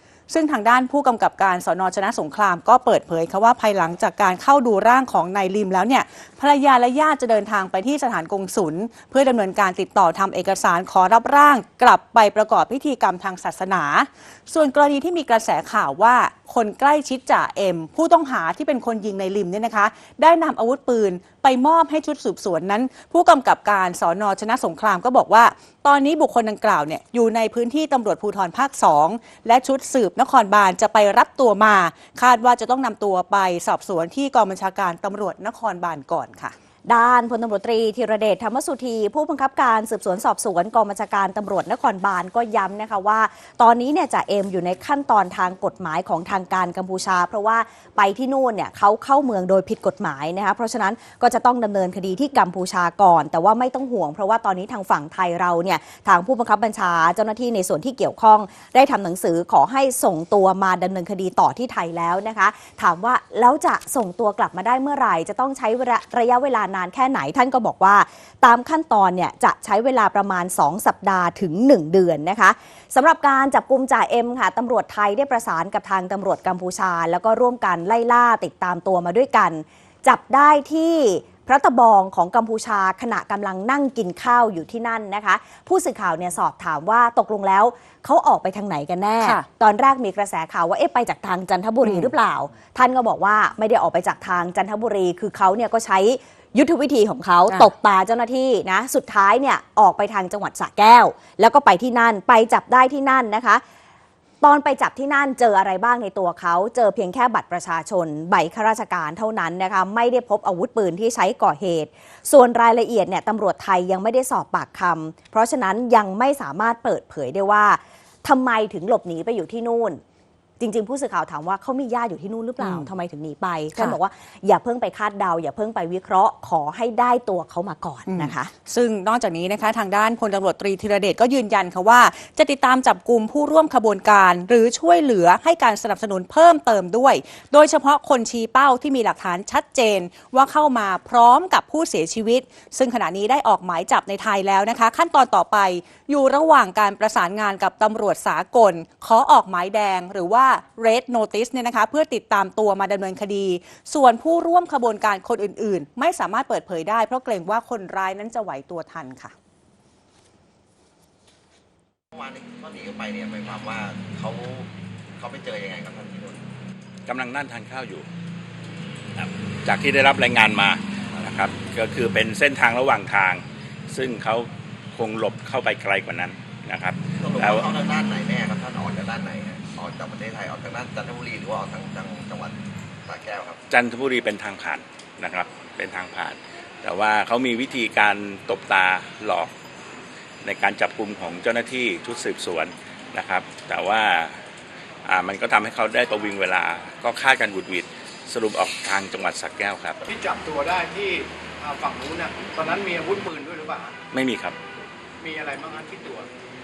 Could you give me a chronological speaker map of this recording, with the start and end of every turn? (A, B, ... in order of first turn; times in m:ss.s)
0:00.3-0:36.6 A
0:36.9-1:43.6 B
1:29.2-1:29.5 A
1:31.8-1:32.1 A
1:44.4-2:00.0 B
2:00.6-2:08.5 B
2:02.6-2:02.9 A
2:08.1-2:39.3 A
2:42.1-2:46.4 C
2:47.1-2:48.1 D
2:49.2-2:57.7 D
2:57.2-3:03.6 C
3:03.7-3:09.5 D
3:10.4-3:14.4 D
3:15.1-3:20.0 D
3:20.1-3:23.9 E
3:24.1-3:24.6 D
3:25.2-3:26.3 E